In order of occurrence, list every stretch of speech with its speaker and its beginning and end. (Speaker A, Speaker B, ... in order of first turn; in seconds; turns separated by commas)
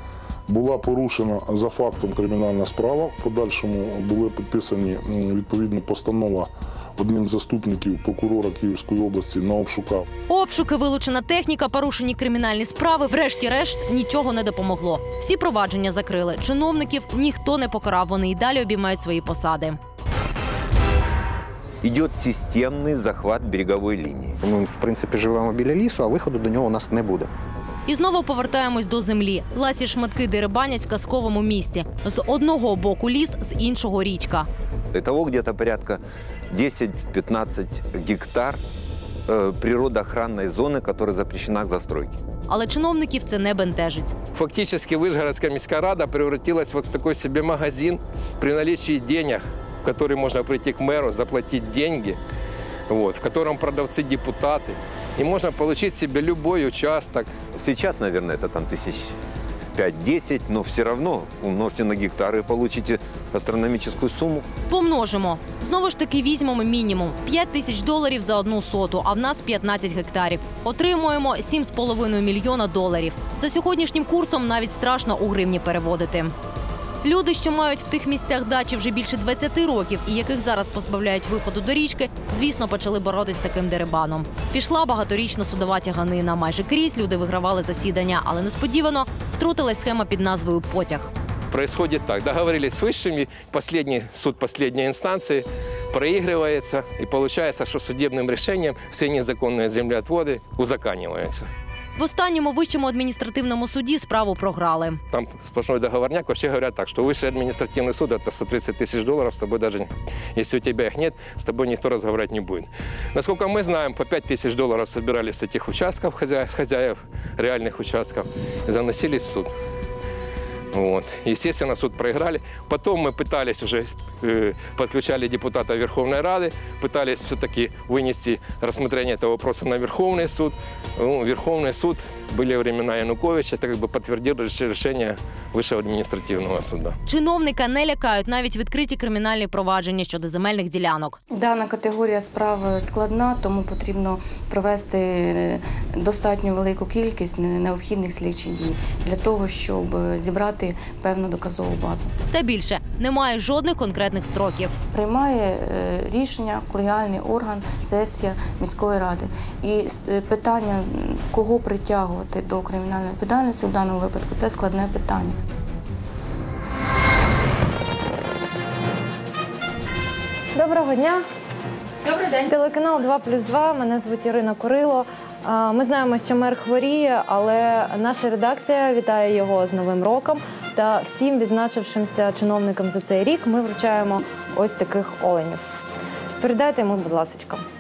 Speaker A: 0.5-10.1, Speaker B: 10.3-19.8, Speaker C: 21.8-24.4, Speaker D: 24.4-27.3, Speaker B: 27.9-34.5, Speaker C: 34.9-38.6, Speaker C: 39.3-42.2, Speaker B: 42.5-44.1, Speaker E: 44.3-52.2, Speaker E: 52.9-57.3, Speaker C: 57.5-59.1, Speaker C: 59.8-64.5, Speaker B: 64.7-76.3, Speaker B: 77.0-91.1, Speaker E: 91.5-101.5, Speaker B: 102.0-105.0, Speaker E: 105.1-119.5, Speaker E: 120.7-137.0, Speaker B: 137.1-141.2, Speaker F: 141.3-152.1, Speaker B: 152.3-154.8, Speaker F: 154.9-165.4, Speaker G: 170.6-171.2, Speaker G: 172.4-185.6, Speaker G: 186.4-187.6